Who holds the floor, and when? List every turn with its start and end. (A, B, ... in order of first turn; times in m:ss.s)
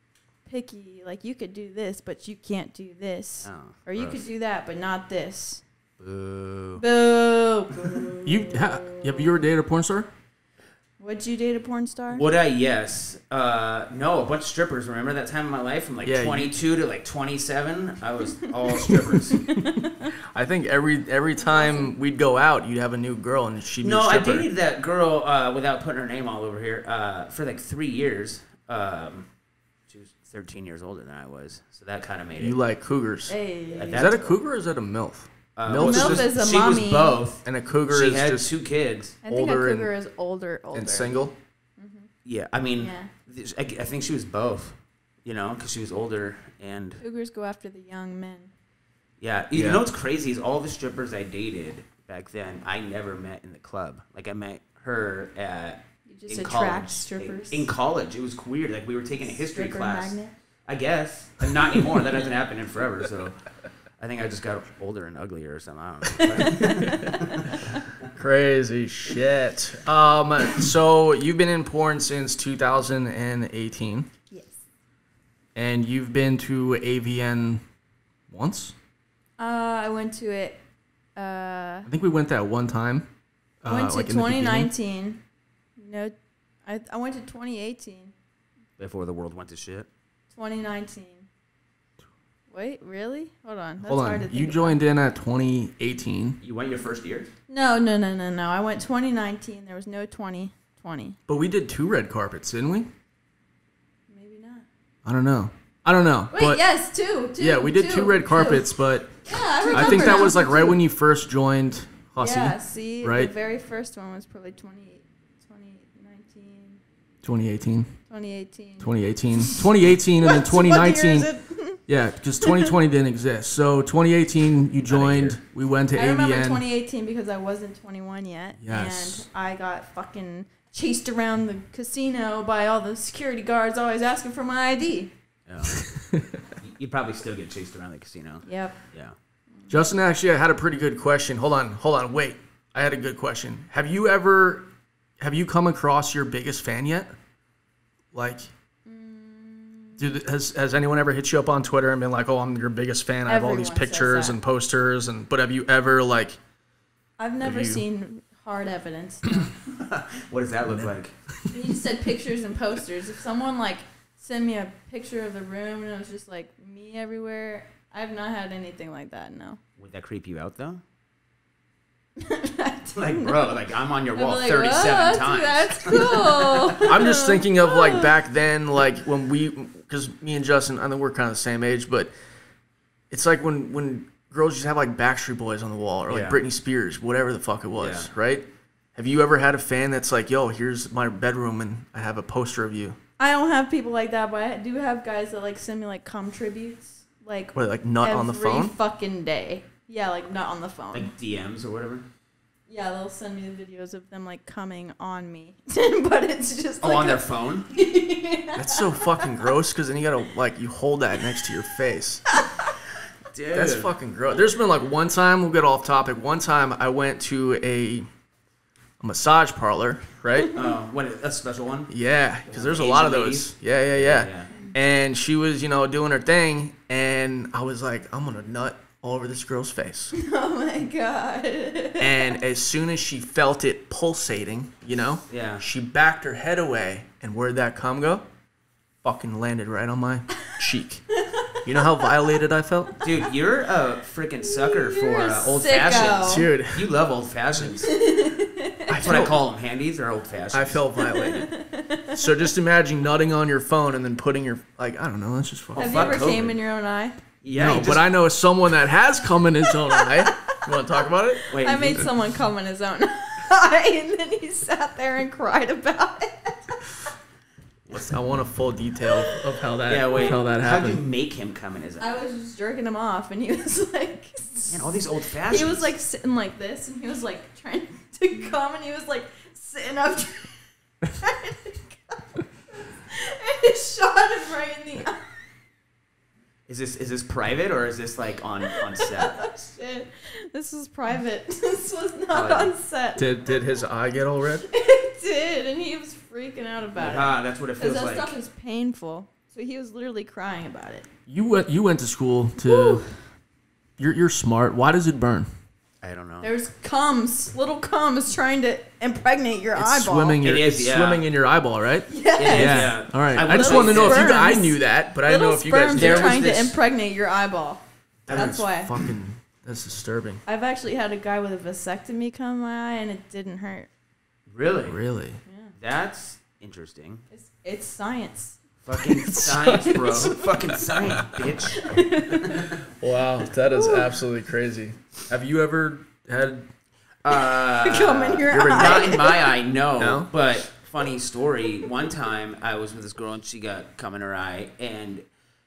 0:00.5-0:05.6 A
0:03.4-0:04.3 B
0:06.0-0:06.8 B
0:06.8-0:09.3 A
0:08.2-0:10.1 C
0:11.0-0:12.2 A
0:12.1-0:19.4 B
0:16.0-0:16.5 C
0:19.5-0:20.1 A
0:20.3-0:24.5 C
0:21.4-0:21.9 A
0:23.8-0:29.3 B
0:29.9-0:32.6 B
0:32.4-0:33.4 C
0:33.3-0:34.1 A
0:33.7-0:34.3 B
0:33.9-0:36.3 C
0:35.6-0:39.2 B
0:35.8-0:37.2 A
0:37.4-0:38.5 C
0:39.2-0:41.2 A
0:39.2-0:39.9 C
0:40.7-0:41.3 C
0:41.8-0:42.1 A
0:42.2-0:47.0 B
0:42.8-0:43.1 A
0:47.0-0:48.5 A
0:49.2-1:03.5 B
0:49.5-0:49.8 C
0:56.1-0:57.7 A
0:59.3-1:00.3 A
1:04.0-1:07.6 B
1:06.4-1:07.1 A
1:08.2-1:14.1 C
1:14.3-1:14.6 A
1:15.6-1:17.6 C
1:18.3-1:18.8 C
1:19.4-1:20.6 A
1:21.2-1:21.9 A
1:21.9-1:23.1 C
1:23.6-1:24.7 C
1:23.7-1:25.2 A
1:25.8-1:26.2 A
1:26.7-1:28.1 A
1:28.8-1:29.9 B
1:30.3-1:31.3 A
1:32.5-1:34.8 A
1:33.8-1:36.4 C
1:36.4-1:37.3 B
1:37.5-1:41.2 A
1:41.3-1:42.9 C
1:44.1-1:44.7 A
1:45.0-1:46.6 C
1:46.3-1:48.7 A
1:47.4-1:53.3 C
1:49.2-1:50.8 A
1:49.8-1:50.2 B
1:52.2-1:56.8 A
1:57.2-1:58.0 C
1:58.1-1:58.9 A
1:58.8-2:01.3 C
2:00.2-2:01.8 A
2:01.9-2:06.6 C
2:02.4-2:02.7 A
2:04.9-2:05.4 B
2:05.9-2:15.1 A
2:08.6-2:09.3 C
2:15.5-2:15.9 B
2:15.8-2:16.2 C
2:16.6-2:19.1 B
2:18.4-2:18.8 A
2:19.7-2:24.7 C
2:25.2-2:27.1 C
2:28.1-2:28.5 C
2:28.9-2:30.0 A
2:30.0-2:36.4 C
2:33.3-2:34.4 A
2:37.2-2:39.5 A
2:37.4-2:37.8 C
2:39.7-2:41.1 B
2:40.7-2:41.5 C
2:41.5-2:49.6 A
2:49.8-2:50.8 B
2:52.2-2:53.5 A
2:53.0-2:56.8 B
2:54.2-2:58.1 A
2:56.8-3:02.1 C
3:03.1-3:13.0 C
3:06.1-3:06.4 B
3:07.8-3:08.1 B
3:13.2-3:21.1 A
3:17.5-3:18.8 C
3:20.9-3:22.1 B
3:22.7-3:29.4 A
3:26.8-3:27.7 B
3:28.6-3:32.4 C
3:33.3-3:33.9 B
3:33.5-3:38.1 C
3:39.0-3:40.5 C
3:40.5-3:41.9 B
3:41.9-3:50.1 C
3:42.5-3:44.5 B
3:50.1-3:52.3 A
3:52.0-3:58.2 C
3:55.3-3:55.6 B
3:59.0-4:01.0 C
4:01.1-4:02.1 A
4:01.6-4:03.0 C
4:03.0-4:07.9 B
4:04.4-4:06.5 A
4:06.2-4:06.9 C
4:07.8-4:09.0 A
4:08.9-4:09.4 C
4:09.0-4:10.8 B
4:10.5-4:11.5 C
4:11.0-4:12.2 A
4:12.1-4:16.1 C
4:15.8-4:16.6 B
4:15.8-4:17.2 A
4:17.4-4:18.1 B
4:17.6-4:22.1 C
4:19.9-4:20.6 A
4:21.5-4:22.1 B
4:21.6-4:26.8 A
4:27.9-4:31.0 C
4:29.9-4:32.2 B
4:32.0-4:45.2 A
4:34.7-4:35.9 B
4:46.7-4:49.4 B
4:48.8-4:53.3 A
4:52.3-4:52.7 B
4:53.2-4:54.7 C
4:54.7-5:01.1 A
4:57.0-4:58.3 B
5:01.3-5:03.0 C
5:02.6-5:03.2 A
5:04.0-5:05.5 C
5:06.0-5:06.5 B
5:06.4-5:10.4 A
5:09.8-5:16.5 C
5:10.4-5:11.3 B
5:12.1-5:18.9 A
5:12.4-5:14.5 B
5:15.9-5:16.8 B
5:18.3-5:20.4 C
5:20.5-5:23.9 A
5:24.5-5:25.0 B
5:24.8-5:25.4 C
5:25.5-5:25.7 A
5:25.8-5:27.2 B
5:27.3-5:28.6 A
5:28.8-5:31.9 B
5:28.9-5:30.4 C
5:29.6-5:30.4 A
5:31.1-5:31.6 C
5:31.6-5:32.7 A
5:32.7-5:36.7 C
5:33.7-5:34.1 A
5:37.2-5:45.2 B
5:37.3-5:39.6 A
5:38.5-5:39.1 C
5:40.0-5:40.3 C